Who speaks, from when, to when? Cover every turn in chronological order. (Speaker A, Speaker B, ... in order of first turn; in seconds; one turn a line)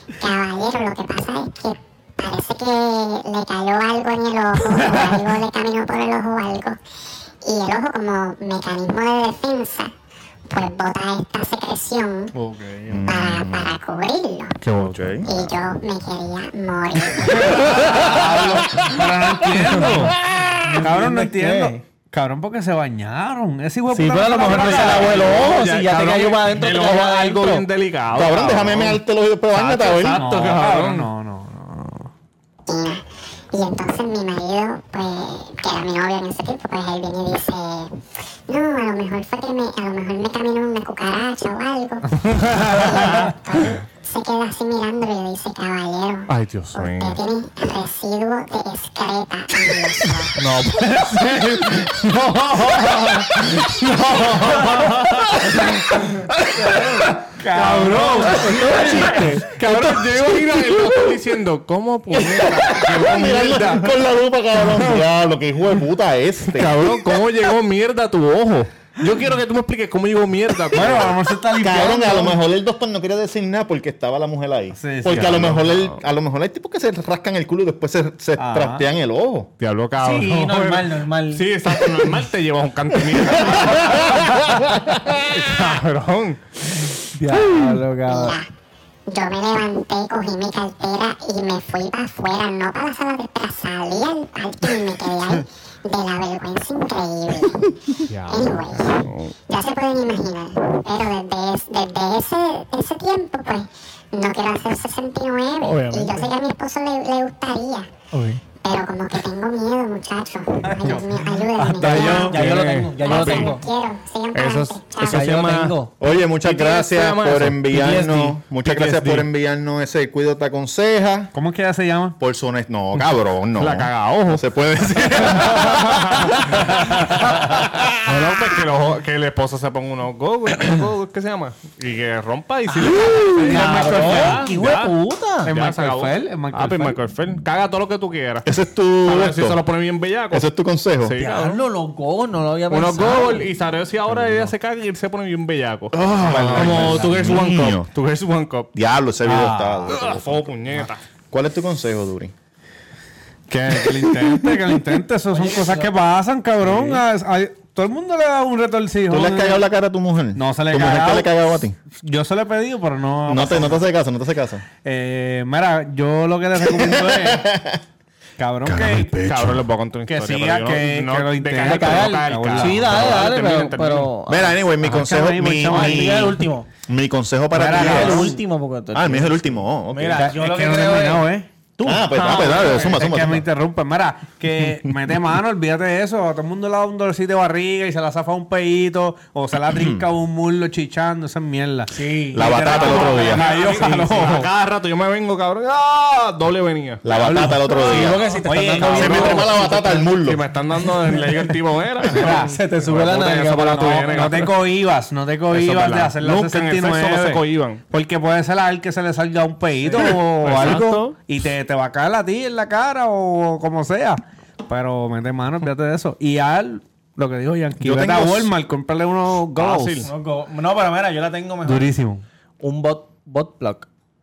Speaker A: 0.2-6.8
Speaker A: 7.4-9.9
Speaker A: 10.5-12.3
Speaker B: 12.3-13.1
Speaker C: 12.9-13.8
Speaker A: 13.1-14.6
Speaker D: 14.6-15.3
Speaker C: 14.7-15.3
Speaker A: 15.2-17.7
Speaker B: 17.1-20.2
Speaker E: 20.6-21.8
Speaker B: 20.8-25.4
Speaker E: 23.9-27.6
Speaker D: 24.5-29.0
Speaker C: 28.1-30.2
Speaker D: 29.5-31.1
Speaker B: 30.0-32.1
Speaker A: 32.7-37.9
Speaker A: 38.5-50.3
Speaker D: 42.4-42.9
Speaker D: 46.3-47.2
Speaker D: 50.4-56.9
Speaker B: 51.9-53.4
Speaker B: 56.7-59.3
Speaker D: 57.5-64.0
Speaker E: 58.3-59.7
Speaker C: 62.1-66.9
Speaker D: 64.6-65.0
Speaker D: 66.5-71.2
Speaker B: 70.7-72.4
Speaker C: 71.6-79.5
Speaker B: 74.8-75.6
Speaker D: 75.1-76.0
Speaker B: 78.4-78.8
Speaker D: 79.6-86.4
Speaker E: 80.0-81.5
Speaker C: 83.1-85.2
Speaker E: 87.1-88.4
Speaker A: 88.1-88.5
Speaker A: 89.1-97.7
Speaker D: 98.1-99.3
Speaker A: 98.3-107.9
Speaker E: 105.6-106.3
Speaker E: 108.1-108.4
Speaker A: 108.6-112.4
Speaker B: 110.6-112.3
Speaker E: 111.8-113.6
Speaker D: 111.8-113.5
Speaker A: 113.0-115.3
Speaker D: 114.3-115.8
Speaker E: 115.0-115.9
Speaker C: 116.0-121.3
Speaker D: 116.4-117.6
Speaker E: 117.7-118.4
Speaker D: 118.6-119.3
Speaker B: 121.3-122.1
Speaker C: 122.2-126.7
Speaker D: 123.6-140.5
Speaker B: 133.4-134.5
Speaker E: 133.4-135.5
Speaker B: 135.5-137.0
Speaker C: 138.4-139.6
Speaker C: 140.3-141.2
Speaker D: 141.0-141.6
Speaker E: 141.2-143.5
Speaker D: 142.7-148.7
Speaker C: 144.1-144.4
Speaker C: 145.9-147.9
Speaker B: 146.4-146.6
Speaker E: 146.6-147.0
Speaker C: 148.7-150.5
Speaker B: 149.2-149.9
Speaker D: 149.9-151.0
Speaker C: 151.3-152.3
Speaker B: 153.5-159.6
Speaker E: 155.3-155.9
Speaker C: 159.1-161.8
Speaker B: 160.3-161.3
Speaker B: 162.0-163.8
Speaker C: 163.3-164.6
Speaker B: 164.8-167.5
Speaker C: 166.6-167.8
Speaker B: 168.4-169.1
Speaker C: 168.6-169.7
Speaker D: 169.2-174.1
Speaker B: 170.1-173.1
Speaker E: 171.6-174.6
Speaker C: 174.3-178.3
Speaker B: 174.8-176.3
Speaker E: 175.6-176.7
Speaker B: 177.5-178.4
Speaker E: 177.7-182.6
Speaker C: 178.9-180.3
Speaker B: 180.1-181.5
Speaker C: 181.8-183.4
Speaker B: 182.1-194.5
Speaker C: 189.7-190.1
Speaker E: 191.9-194.1
Speaker C: 192.3-193.5
Speaker D: 192.7-197.6
Speaker C: 197.0-198.2
Speaker B: 197.2-199.5
Speaker E: 197.6-200.1
Speaker C: 198.9-200.4
Speaker D: 198.9-204.6
Speaker E: 202.1-204.3
Speaker B: 202.2-202.5
Speaker B: 203.7-220.1
Speaker D: 205.5-207.8
Speaker D: 209.9-211.1
Speaker C: 217.8-218.5
Speaker D: 219.5-220.1
Speaker E: 220.0-221.9
Speaker B: 221.6-222.2
Speaker E: 222.6-223.9